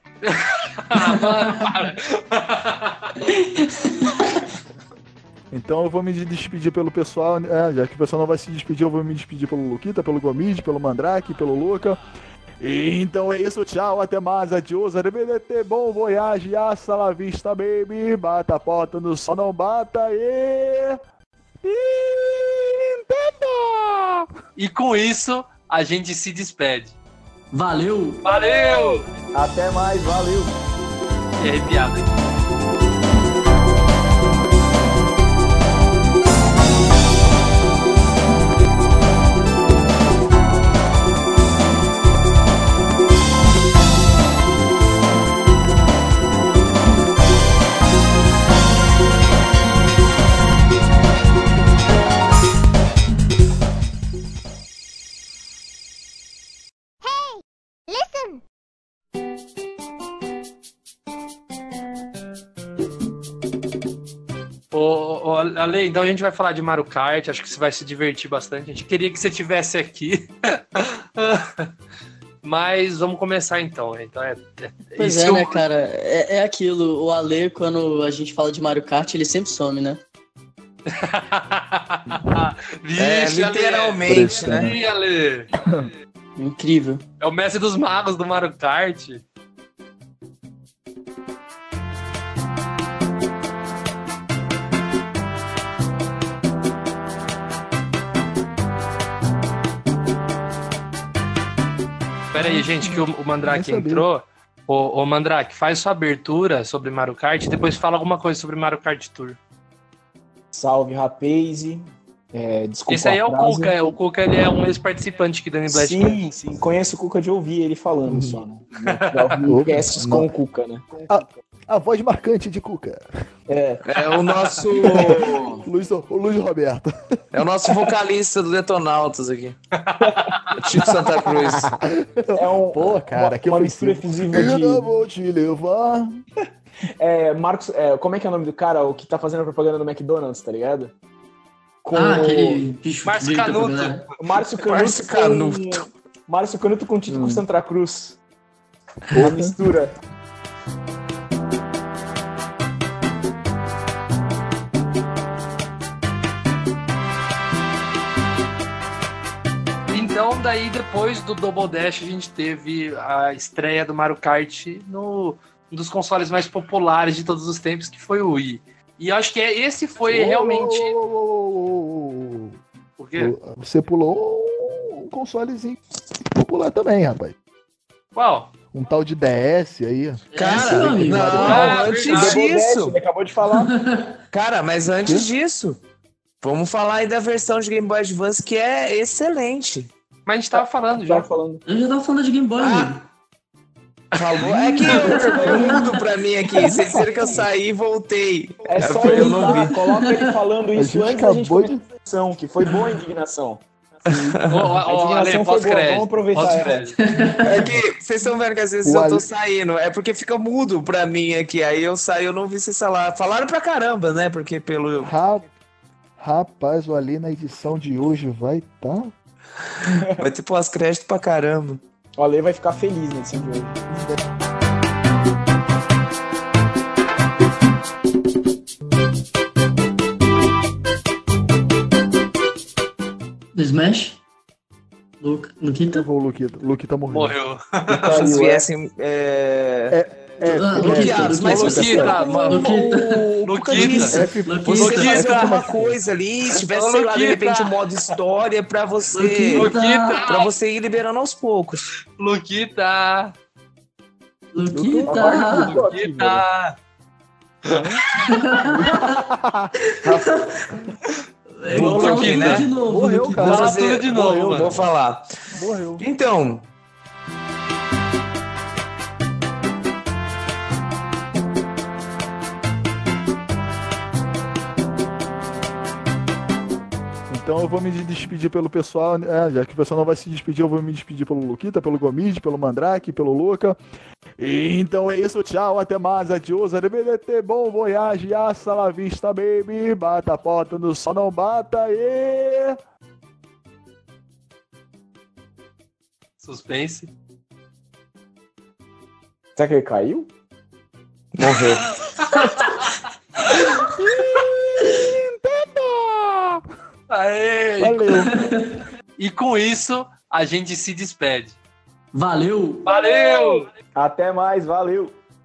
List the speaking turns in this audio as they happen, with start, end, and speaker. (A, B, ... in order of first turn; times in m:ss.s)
0:00.3-0:03.1 A
0:01.0-0:01.7 B
0:03.2-0:04.4 B
0:05.5-0:12.0 C
0:12.6-0:21.0 C
0:21.6-0:24.3 C
0:24.6-0:27.0 A
0:27.5-0:28.3 B
0:28.2-0:29.0 A
0:29.3-0:30.6 D
0:31.4-0:32.1 A
1:04.7-1:11.7 A
1:12.4-1:15.6 A
1:15.0-1:20.0 B
1:20.9-1:25.5 A
1:23.0-1:24.7 E
1:24.0-1:24.8 C
1:25.6-1:25.9 C
1:26.4-1:27.0 B
1:27.2-1:29.2 A
1:42.3-1:49.4 A
1:42.4-1:44.0 C
1:50.5-1:54.0 D
1:52.9-1:56.3 A
1:55.7-2:01.1 D
1:58.1-1:58.4 C
1:59.4-2:00.3 C
2:01.1-2:03.0 C
2:03.5-2:03.8 D
2:03.9-2:05.5 E
2:04.8-2:05.7 D
2:04.8-2:07.7 C
2:07.3-2:09.6 E
2:09.8-2:10.5 A
2:10.0-2:11.5 D
2:10.6-2:11.7 E
2:11.3-2:16.2 C
2:12.4-2:14.9 D
2:17.0-2:20.9 D
2:21.8-2:22.6 D
2:21.9-2:24.0 B
2:23.0-2:24.0 A
2:24.2-2:28.2 D
2:24.6-2:25.8 E
2:27.1-2:27.4 C
2:29.1-2:29.5 C
2:29.1-2:29.9 D
2:39.9-2:51.0 A
2:50.0-2:52.6 C
2:53.0-2:53.3 A
2:53.2-2:55.8 C
2:56.3-2:57.4 C
2:58.1-2:58.5 A
2:58.7-3:01.9 C
3:00.3-3:01.5 B
3:00.4-3:03.0 E
3:01.4-3:02.4 A
3:02.1-3:03.7 D
3:03.5-3:04.2 B
3:04.3-3:05.8 E
3:06.4-3:09.9 E
3:10.3-3:11.3 A
3:10.5-3:11.6 D
3:11.7-3:13.0 B
3:12.6-3:13.0 E
3:14.1-3:19.7 E
3:14.4-3:15.9 B
3:15.0-3:17.4 D
3:18.7-3:27.0 D
3:19.8-3:20.2 B
3:20.7-3:21.8 C
3:24.1-3:24.7 E
3:24.5-3:27.0 A
3:27.0-3:27.7 B
3:27.4-3:35.1 E
3:28.8-3:29.3 C
3:35.0-3:35.5 C
3:36.2-3:39.1 C
3:39.8-3:40.2 D
3:40.2-3:41.8 E
3:42.2-3:43.8 D
3:43.9-3:44.2 C
3:53.6-3:54.2 B
3:55.2-3:56.1 B
3:55.9-3:57.4 C
3:57.1-3:58.4 A
3:58.0-4:00.0 E
3:58.0-3:58.6 D
3:58.1-3:58.4 C
3:59.9-4:06.0 C
4:00.5-4:01.9 B
4:00.7-4:02.8 E
4:01.4-4:02.7 A
4:02.5-4:05.3 B
4:03.5-4:04.2 A
4:03.6-4:09.7 E
4:04.7-4:05.5 A
4:06.5-4:07.8 A
4:09.1-4:10.2 B
4:09.5-4:10.5 A
4:10.3-4:11.9 E
4:12.2-4:13.4 A
4:14.5-4:15.8 B
4:14.7-4:15.9 C
4:15.0-4:16.4 D
4:15.9-4:16.8 A
4:17.7-4:18.0 C
4:18.3-4:19.2 B
4:18.6-4:20.4 C
4:19.9-4:20.8 B
4:21.6-4:23.5 B
4:21.7-4:22.7 E
4:21.7-4:24.8 C
4:21.8-4:22.7 A
4:23.4-4:25.3 E
4:23.4-4:24.7 A
4:25.5-4:26.0 C
4:26.0-4:26.6 E
4:37.3-4:43.8 C
4:44.4-4:52.8 C
4:56.4-4:57.1 A
4:59.6-5:00.3 D
5:01.4-5:02.0 E
5:02.0-5:02.9 A
5:03.5-5:03.7 A
5:03.8-5:06.6 C
5:07.1-5:08.2 A
5:07.8-5:08.5 C
5:08.3-5:08.8 B
5:09.2-5:11.6 A
5:12.1-5:12.9 B
5:12.8-5:13.7 A
5:13.0-5:13.6 C
5:14.0-5:15.2 D